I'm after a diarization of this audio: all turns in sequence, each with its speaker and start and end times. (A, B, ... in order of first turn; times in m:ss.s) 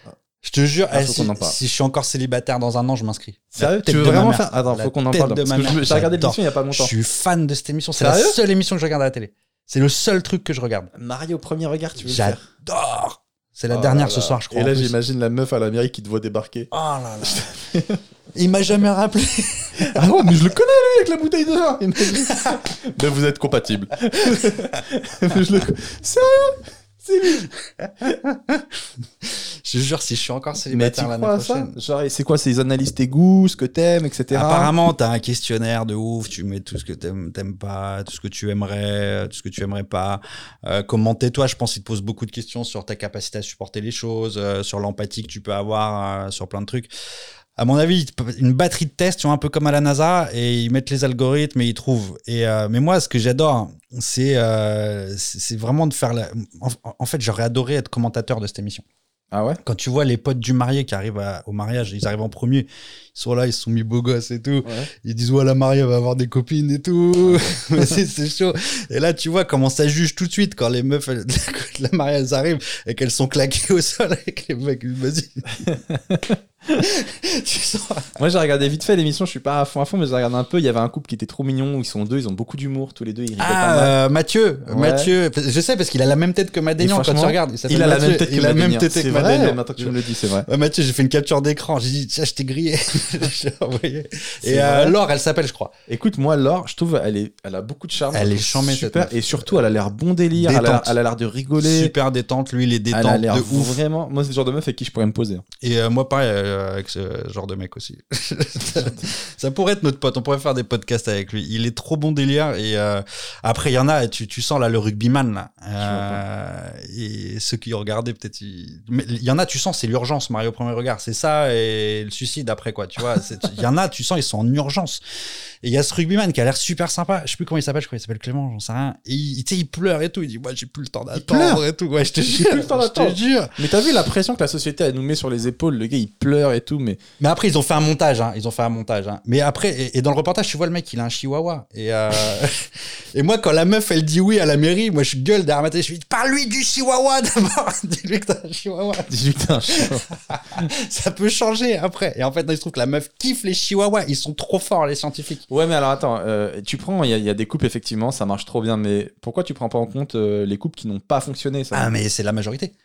0:00.4-0:10.9 A
0:00.9-0:01.6 B
0:03.5-0:06.9 B
0:08.0-0:08.4 B
0:10.9-0:12.5 B
0:12.0-0:15.0 A
0:13.7-0:18.0 B
0:16.7-0:17.5 A
0:18.3-0:20.3 A
0:19.8-0:27.5 B
0:22.0-0:22.6 A
0:27.8-0:28.6 A
0:29.2-0:31.8 A
0:30.7-0:34.7 B
0:34.3-0:46.9 A
0:47.6-0:58.8 A
0:59.3-0:59.6 B
0:59.6-1:15.6 A
1:04.6-1:04.9 B
1:15.6-1:16.4 B
1:16.8-1:18.2 A
1:18.2-1:24.0 B
1:23.4-1:35.7 A
1:24.7-1:25.1 B
1:26.8-1:30.5 B
1:34.4-1:35.0 B
1:35.9-1:41.9 B
1:38.1-1:39.6 A
1:40.3-1:41.0 A
1:41.6-1:43.8 A
1:42.9-1:45.4 B
1:45.6-2:05.0 A
1:55.8-1:56.2 B
2:05.6-2:13.6 A
2:11.1-2:11.6 B
2:12.2-2:17.0 B
2:17.2-2:29.1 A
2:29.1-2:30.0 B
2:29.7-2:35.4 A
2:35.5-2:41.9 B
2:41.7-2:42.7 A